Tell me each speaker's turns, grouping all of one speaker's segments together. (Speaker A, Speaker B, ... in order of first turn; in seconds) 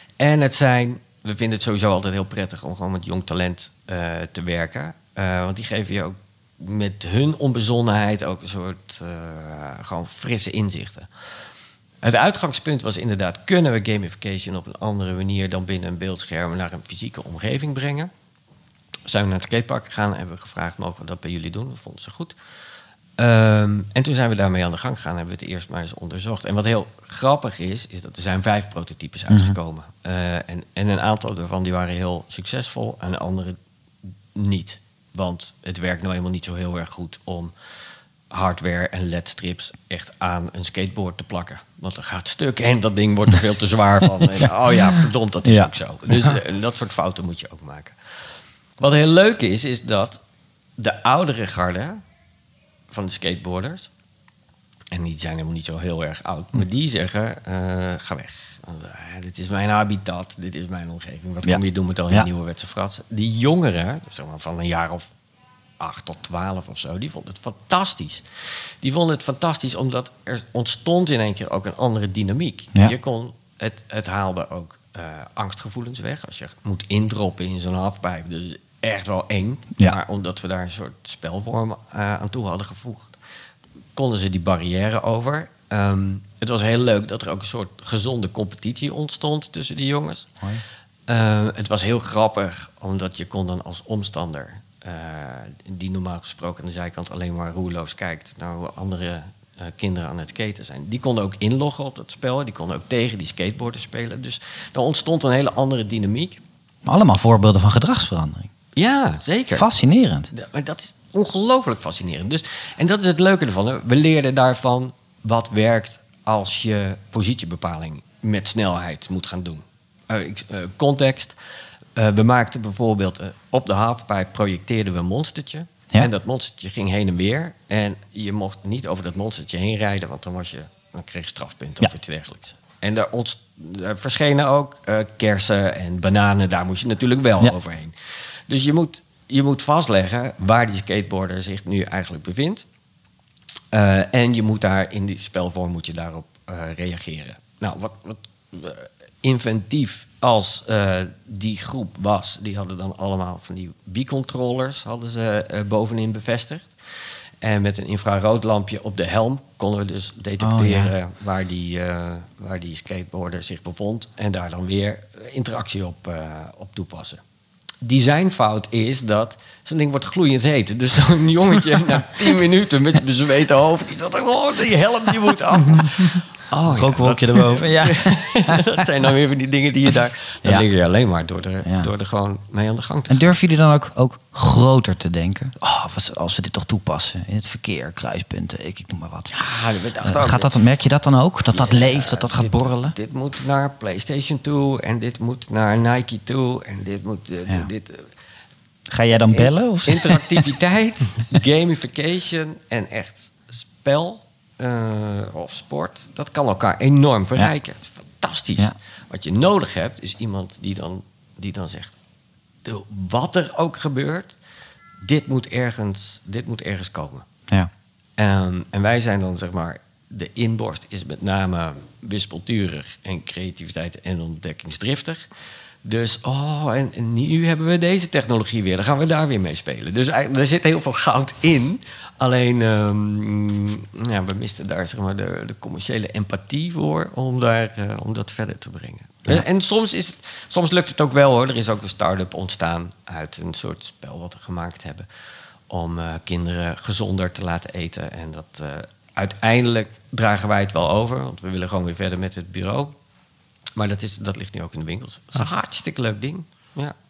Speaker A: 0.2-11.1, 12.0-18.1, 19.1-22.3, 23.2-33.6, 34.3-37.5, 38.3-48.0, 48.8-50.2, 50.8-52.0, 52.9-53.9, 54.9-65.1, 65.8-68.2, 68.8-83.2, 83.9-90.3, 91.1-106.4, 108.8-109.7, 110.3-121.3, 122.0-137.9, 138.5-142.6, 143.7-156.7, 157.4-167.2, 167.8-183.3, 189.3-190.5, 191.5-198.1, 199.3-211.9, 212.6-214.3, 215.0-217.2, 218.2-225.2, 225.8-245.1, 245.7-252.9, 253.8-256.9
Speaker B: 29.3-29.6, 45.4-45.7, 61.4-62.3, 106.8-108.5, 109.5-110.3, 160.4-160.9, 176.7-178.6, 181.6-181.9, 183.1-189.4, 190.0-192.9, 198.9-200.4